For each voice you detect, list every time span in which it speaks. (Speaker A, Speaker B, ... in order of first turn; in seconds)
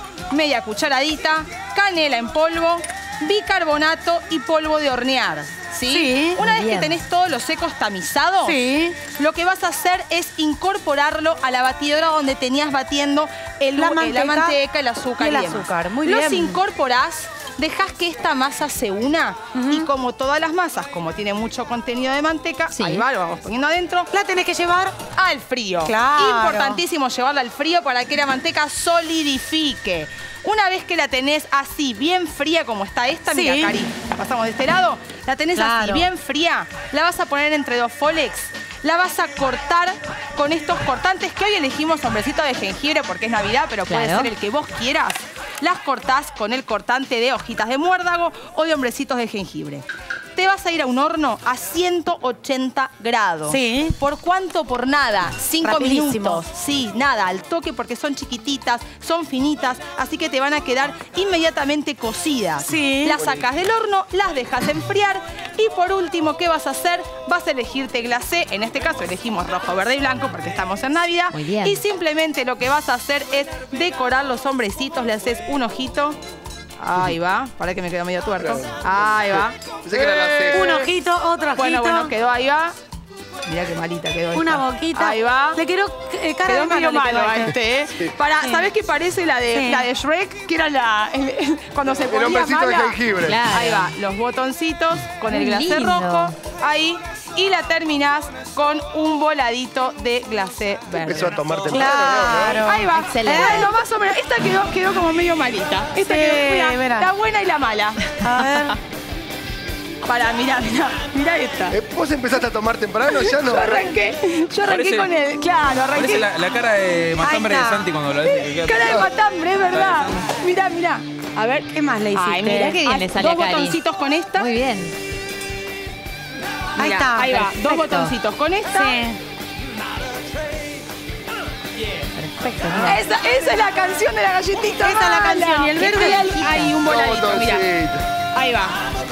Speaker A: 0.3-24.1, 25.1-76.2, 76.8-80.9, 81.5-82.7, 83.5-85.6, 86.4-108.5, 110.0-111.8, 113.0-116.3, 118.6-124.5, 126.8-129.0, 132.7-137.7, 138.3-138.8
Speaker B: 5.9-6.4, 8.4-9.0, 13.8-14.6, 15.2-16.6, 19.6-19.9, 24.1-25.0, 25.8-26.8, 33.3-33.7, 35.5-36.0, 53.5-53.9, 55.6-56.4, 62.6-63.2, 80.5-82.1, 84.3-87.5, 88.4-88.7, 89.5-89.9, 101.7-103.7, 106.0-107.1, 108.2-108.8, 117.2-117.9, 121.7-122.8, 126.8-128.0, 128.7-129.2, 134.8-136.2
Speaker C: 6.4-7.0, 22.7-23.0, 43.9-44.3, 71.3-71.8, 93.2-93.9, 95.3-96.3, 103.0-103.7, 122.4-123.8, 124.3-124.9, 127.3-128.1, 132.2-133.0, 135.8-136.7
Speaker D: 78.4-78.8, 79.8-80.6, 92.1-93.4, 101.0-102.6, 111.7-113.8, 136.8-138.0
Speaker E: 114.6-115.1, 115.9-119.1, 119.7-120.3